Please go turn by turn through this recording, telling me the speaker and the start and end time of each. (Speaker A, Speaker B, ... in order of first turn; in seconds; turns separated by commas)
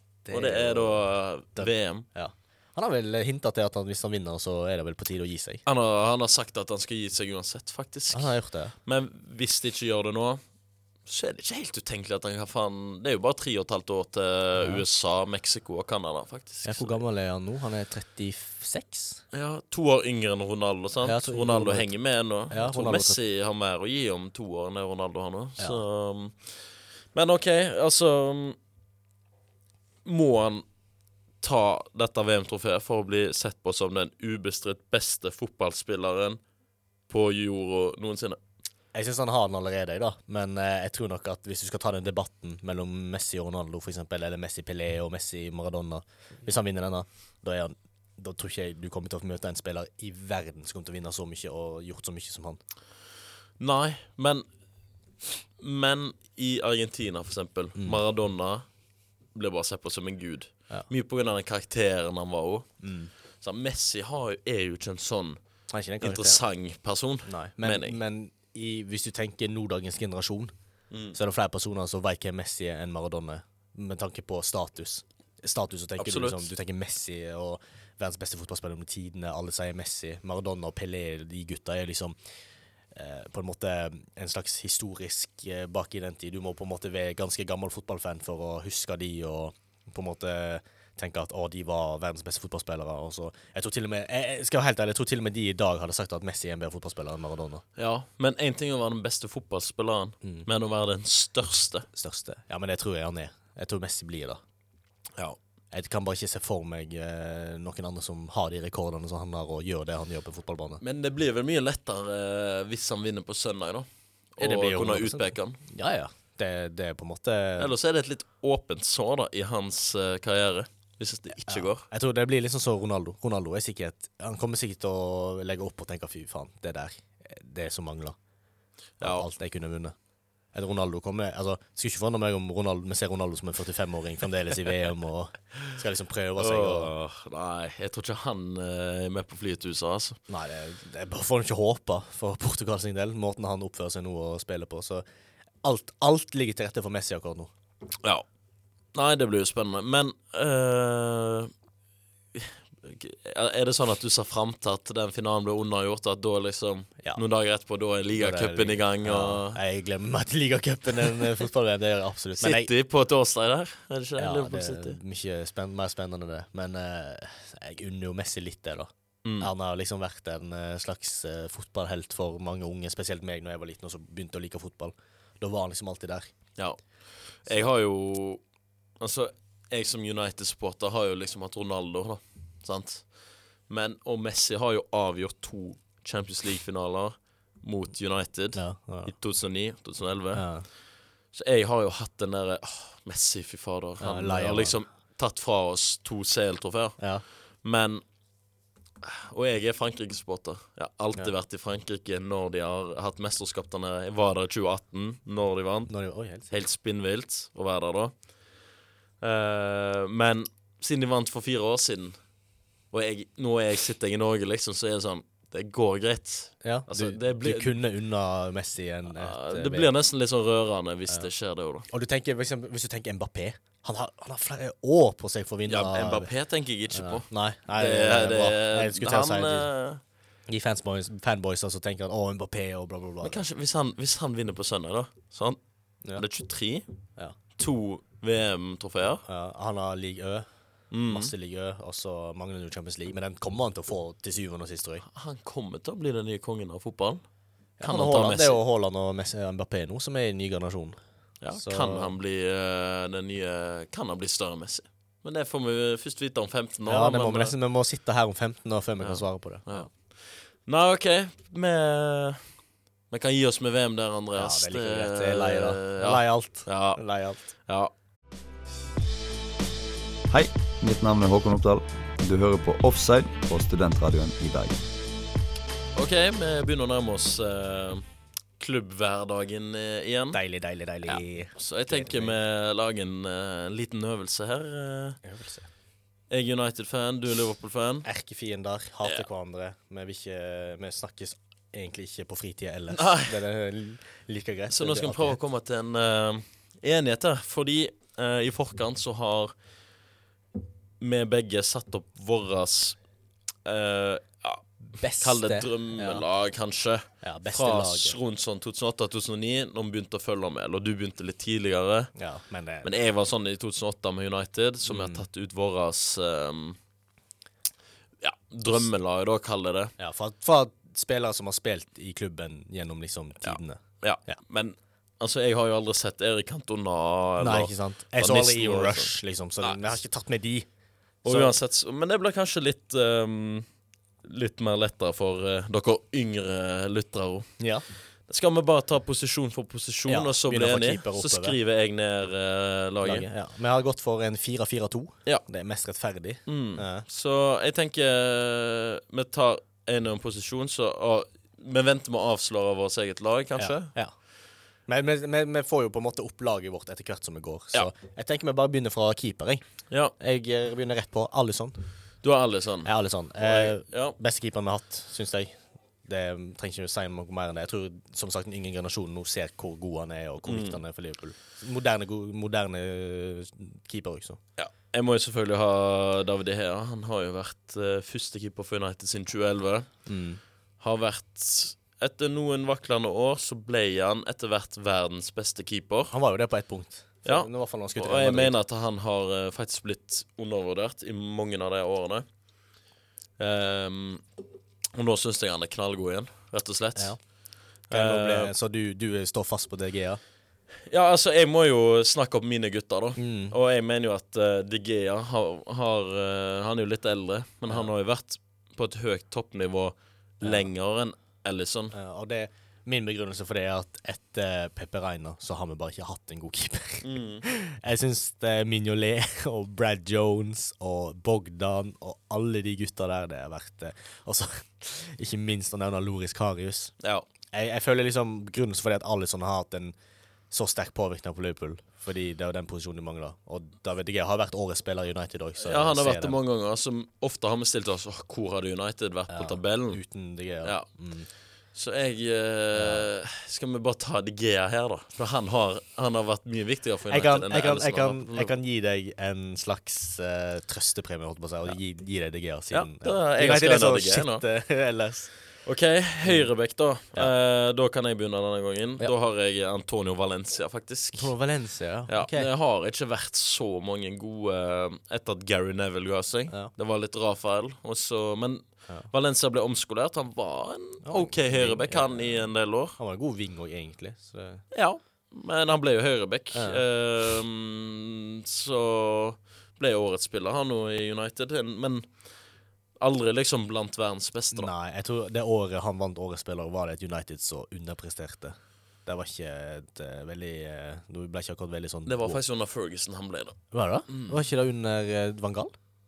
Speaker A: 0.2-5.6, Speaker B: 0.3-2.0, Speaker B: 5.7-10.4, Speaker A: 8.1-8.8, Speaker B: 11.0-17.0, Speaker A: 14.6-14.8, Speaker A: 16.6-19.2, Speaker B: 19.3-28.6, Speaker A: 21.0-23.2, Speaker B: 30.0-30.7, Speaker B: 31.4-36.4, Speaker B: 37.1-38.4, Speaker A: 38.9-52.6, Speaker B: 53.6-54.4, Speaker B: 55.6-65.4, Speaker A: 57.7-58.0, Speaker A: 62.8-63.1, Speaker A: 65.7-66.4, Speaker B: 66.0-68.0, Speaker A: 67.2-70.5, Speaker B: 70.9-71.2, Speaker A: 71.0-97.6, Speaker B: 76.0-76.5, Speaker B: 97.8-101.8, Speaker A: 100.2-100.5, Speaker A: 101.9-104.4, Speaker A: 105.7-110.8, Speaker B: 110.8-115.6, Speaker A: 114.4-117.8, Speaker B: 117.6-121.8, Speaker A: 121.5-128.2, Speaker B: 129.0-129.3, Speaker A: 129.0-130.0, Speaker A: 130.5-136.9, Speaker B: 136.4-140.2, Speaker A: 140.3-145.1, Speaker A: 145.6-147.5, Speaker B: 148.9-151.5, Speaker B: 152.3-159.6, Speaker A: 158.2-162.7, Speaker B: 162.4-165.0, Speaker A: 164.2-176.3, Speaker B: 169.2-169.5, Speaker B: 176.6-178.4, Speaker A: 177.4-177.7, Speaker B: 179.0-190.8, Speaker A: 188.5-189.2, Speaker A: 190.3-190.7, Speaker B: 191.3-198.0, Speaker A: 194.0-194.8, Speaker A: 197.0-197.2, Speaker B: 199.0-208.3, Speaker A: 205.9-206.5, Speaker B: 209.2-212.4, Speaker B: 212.9-217.8, Speaker A: 216.6-219.9, Speaker B: 219.1-221.8, Speaker A: 221.8-229.7, Speaker B: 225.7-230.0, Speaker A: 230.4-233.4, Speaker B: 233.2-239.2, Speaker A: 239.2-245.0, Speaker B: 240.9-241.3, Speaker B: 245.0-247.2, Speaker B: 247.8-248.6, Speaker A: 247.8-252.1, Speaker B: 251.4-257.5, Speaker A: 256.9-259.9, Speaker B: 259.0-267.9, Speaker A: 264.3-267.4, Speaker C: 270.3-274.8, Speaker B: 275.9-280.4, Speaker A: 280.3-282.4, Speaker B: 281.0-285.2, Speaker A: 285.2-285.7, Speaker B: 286.3-288.1, Speaker A: 288.0-295.4, Speaker B: 292.9-293.4, Speaker B: 294.7-299.5, Speaker B: 301.0-303.0, Speaker B: 303.6-304.6, Speaker A: 304.9-306.2, Speaker B: 305.1-312.1, Speaker A: 307.2-308.2, Speaker A: 312.1-312.9, Speaker B: 312.8-316.8, Speaker A: 314.9-315.2, Speaker B: 318.2-319.9, Speaker A: 320.0-324.4, Speaker B: 323.4-330.0, Speaker A: 327.4-330.7, Speaker A: 331.2-331.6, Speaker B: 331.2-333.7, Speaker B: 334.2-343.3, Speaker A: 337.6-337.8, Speaker A: 340.1-341.6, Speaker A: 343.0-347.1, Speaker B: 346.4-353.9, Speaker A: 353.6-362.2, Speaker B: 362.2-364.1, Speaker A: 362.8-374.4, Speaker B: 370.4-370.8, Speaker B: 374.6-380.1, Speaker A: 380.1-380.4, Speaker B: 380.8-386.1, Speaker A: 386.1-388.6, Speaker B: 387.2-392.3, Speaker B: 393.4-394.2, Speaker B: 394.9-397.3, Speaker A: 396.9-397.2, Speaker A: 397.8-400.2, Speaker B: 397.9-398.5, Speaker B: 400.9-411.9, Speaker A: 403.1-403.6, Speaker A: 410.4-410.7, Speaker A: 411.9-426.9, Speaker B: 417.0-417.4, Speaker B: 427.0-427.3, Speaker A: 427.5-429.9, Speaker A: 430.5-436.4, Speaker B: 435.6-440.1, Speaker A: 439.3-441.3, Speaker B: 440.6-440.9, Speaker B: 441.7-448.5, Speaker A: 442.7-443.1, Speaker A: 447.1-455.6, Speaker B: 452.7-454.4, Speaker B: 455.6-461.4, Speaker A: 456.2-457.3, Speaker A: 461.1-462.5, Speaker B: 462.1-473.0, Speaker A: 471.0-474.6, Speaker B: 474.7-482.4, Speaker A: 476.5-476.8, Speaker B: 482.9-484.7, Speaker A: 484.5-492.4, Speaker B: 492.1-494.4, Speaker A: 493.7-495.7